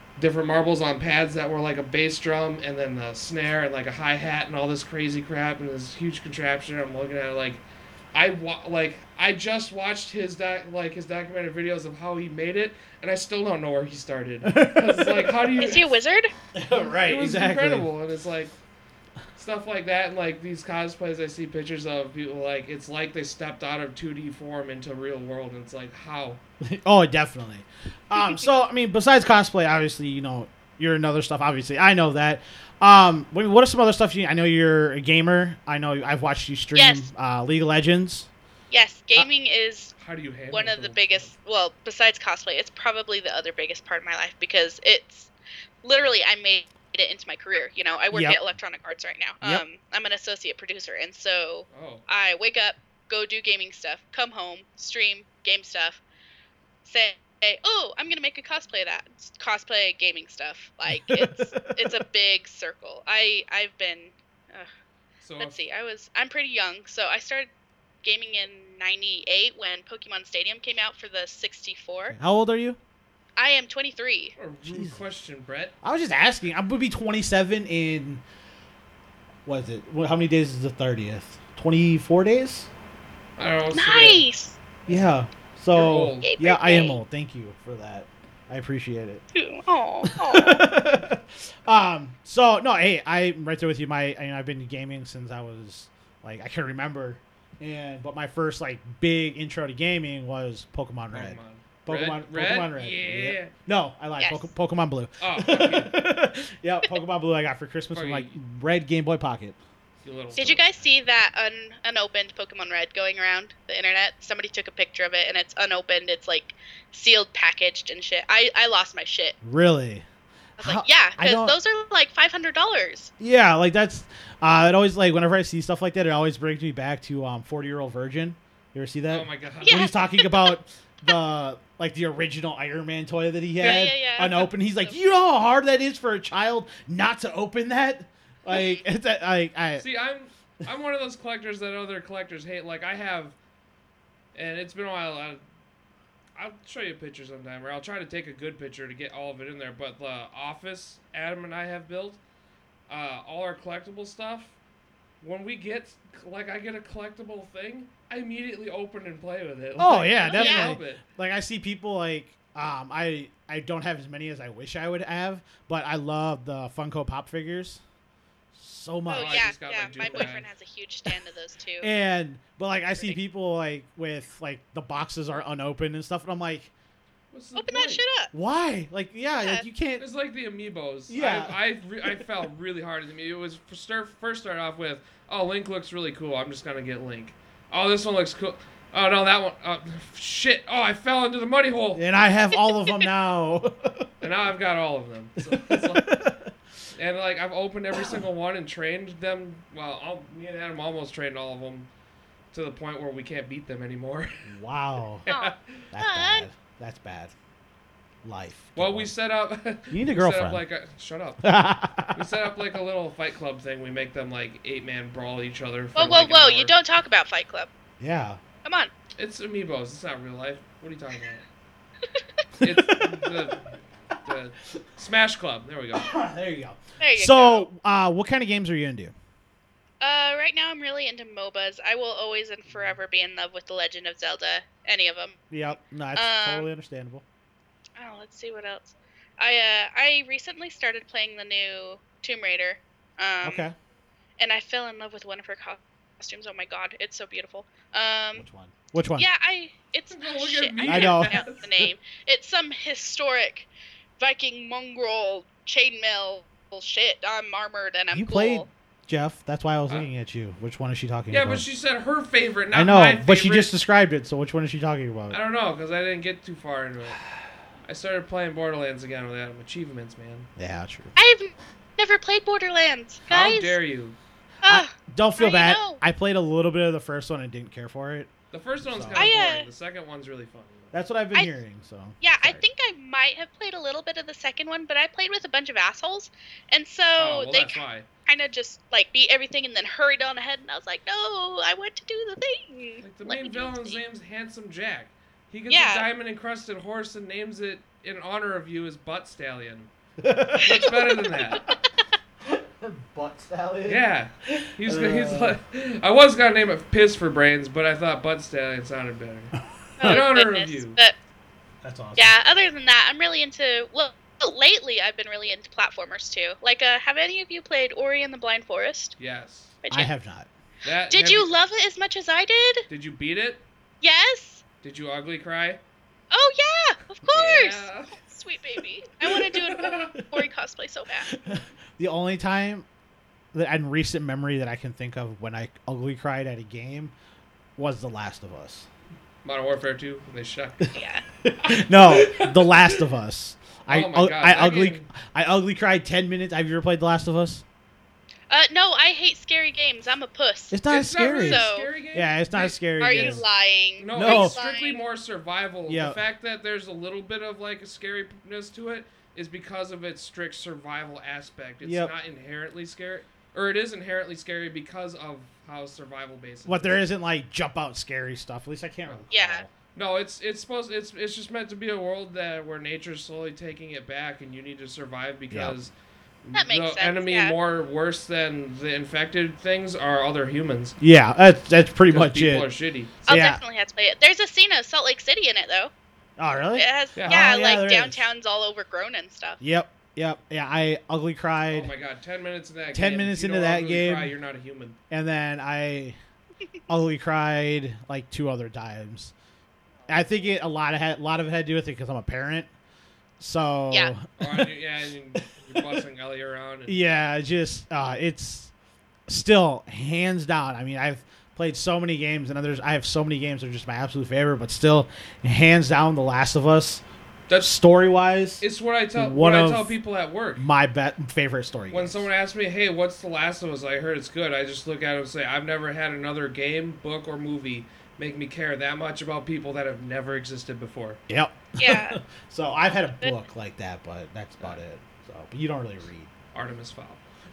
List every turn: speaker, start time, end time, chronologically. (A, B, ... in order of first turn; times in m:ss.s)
0:00.2-0:07.6 A
0:08.1-0:15.9 A
0:14.4-0:15.4 B
0:15.6-0:16.3 C
0:16.5-0:17.9 B
0:17.0-0:18.5 A
0:19.4-0:26.4 A
0:26.6-0:38.3 B
0:36.7-0:37.1 C
0:38.7-0:39.9 C
0:40.0-0:41.3 A
0:40.5-0:45.3 C
0:45.8-0:56.0 C
0:48.1-0:48.4 B
0:51.7-0:52.0 A
0:56.8-1:04.7 C
1:00.9-1:02.0 B
1:05.2-1:05.6 A
1:05.4-1:07.5 C
1:08.0-1:12.2 C
1:12.1-1:12.8 B
1:13.4-1:14.3 C
1:14.4-1:15.7 A
1:14.6-1:15.0 B
1:15.8-1:18.2 B
1:19.4-1:22.7 B
1:23.4-1:24.2 A
1:23.7-1:24.6 C
1:24.9-1:29.2 B
1:25.7-1:26.3 A
1:26.2-1:27.0 C
1:29.3-1:30.6 C
1:30.0-1:49.6 B
1:41.1-1:43.5 A
1:44.2-1:44.5 C
1:45.2-1:45.9 A
1:47.9-1:48.3 A
1:50.0-1:50.6 A
1:50.3-1:59.4 C
1:59.4-2:00.0 B
2:00.6-2:01.6 B
2:00.6-2:03.1 C
2:03.2-2:19.8 B
2:09.1-2:09.9 A
2:09.6-2:10.5 C
2:13.6-2:14.9 C
2:18.5-2:18.8 C
2:19.8-2:23.4 A
2:24.3-2:25.4 A
2:26.3-2:32.2 A
2:32.9-2:34.5 A
2:35.2-2:41.0 A
2:39.8-2:47.8 B
2:40.3-2:40.7 C
2:48.5-2:49.5 B
2:49.1-2:51.9 C
2:49.1-2:50.5 A
2:51.8-2:56.7 B
2:57.3-2:58.0 A
2:57.6-2:58.3 C
2:58.3-3:00.0 B
3:00.0-3:12.0 A
3:01.1-3:02.2 B
3:11.9-3:14.1 B
3:14.2-3:16.3 A
3:15.4-3:16.5 B
3:17.0-3:21.9 A
3:22.5-3:24.5 A
3:24.4-3:25.2 B
3:25.2-3:25.8 A
3:25.3-3:26.4 C
3:25.9-3:27.3 B
3:28.2-3:29.1 B
3:28.8-3:31.4 A
3:29.9-3:30.6 B
3:31.4-3:32.2 B
3:32.1-3:36.7 A
3:36.0-3:37.7 C
3:38.0-3:38.4 B
3:38.6-3:38.9 C
3:39.2-3:41.4 A
3:42.6-3:43.4 B
3:42.6-3:43.7 A
3:44.2-3:46.1 A
3:45.9-3:49.1 B
3:47.0-3:47.7 C
3:50.0-3:55.5 C
3:55.5-3:57.2 B
3:56.1-3:56.7 C
3:58.0-4:03.7 C
4:03.4-4:03.7 B
4:04.4-4:08.5 C
4:08.4-4:09.3 B
4:09.2-4:13.7 C
4:10.1-4:11.8 A
4:10.8-4:11.4 B
4:14.2-4:18.7 C
4:18.1-4:21.6 B
4:21.3-4:23.7 A
4:22.7-4:25.4 B
4:25.3-4:27.2 A
4:27.8-4:30.5 A
4:30.6-4:31.2 B
4:31.2-4:33.8 C
4:33.3-4:34.2 A
4:34.6-4:36.0 C
4:34.6-4:38.3 B
4:38.5-4:40.9 A
4:38.8-4:39.3 B
4:39.1-4:39.7 C
4:40.9-4:42.6 B
4:42.2-4:54.0 C
4:47.2-4:48.0 A
4:53.0-4:59.9 A
4:55.7-4:56.0 C
5:00.2-5:00.9 B
5:00.6-5:01.6 A
5:00.7-5:01.7 C
5:02.4-5:05.6 B
5:03.8-5:11.0 A
5:09.6-5:10.2 B
5:10.0-5:11.1 C
5:11.8-5:12.3 B
5:12.2-5:19.2 C
5:19.2-5:19.7 A
5:19.8-5:20.1 C
5:19.9-5:20.5 B
5:20.8-5:21.5 A
5:21.1-5:22.8 C
5:22.9-5:23.6 A
5:24.0-5:24.6 C
5:24.8-5:25.8 A
5:26.3-5:31.3 C
5:27.3-5:28.1 A
5:29.4-5:30.1 A
5:31.3-5:32.8 B
5:33.5-5:37.1 B
5:37.8-5:38.9 B
5:39.4-5:40.9 A
5:40.9-5:41.2 C
5:41.4-5:47.6 B
5:41.6-5:43.0 A
5:43.9-5:45.1 A
5:48.5-5:50.8 C
5:50.7-5:53.5 B
5:50.9-5:53.4 A
5:51.3-5:51.9 C
5:53.0-5:55.0 C
5:54.0-6:07.0 A
5:54.1-5:54.6 B
5:55.9-5:56.2 B
6:01.8-6:02.1 B
6:06.6-6:09.7 B
6:09.3-6:09.6 C
6:09.9-6:21.0 A
6:15.5-6:15.8 B
6:16.5-6:17.6 C
6:21.0-6:22.7 B
6:22.1-6:23.1 A
6:23.2-6:25.9 C
6:23.3-6:23.6 B
6:26.4-6:28.2 B
6:26.7-6:29.6 C
6:27.2-6:27.4 A
6:29.6-6:31.9 B
6:31.7-6:35.0 A
6:32.9-6:34.3 B
6:35.1-6:36.2 B
6:36.9-6:39.3 B
6:40.1-6:42.7 B
6:43.4-6:44.7 B
6:44.4-6:47.0 A
6:45.4-6:46.0 B
6:46.9-6:48.7 B
6:49.3-6:57.0 B
6:57.5-6:57.7 A
6:57.6-7:00.0 B
6:58.6-7:00.6 A
7:00.6-7:02.3 B
7:01.9-7:11.2 A
7:11.3-7:16.3 B
7:11.8-7:12.2 C
7:16.5-7:17.2 A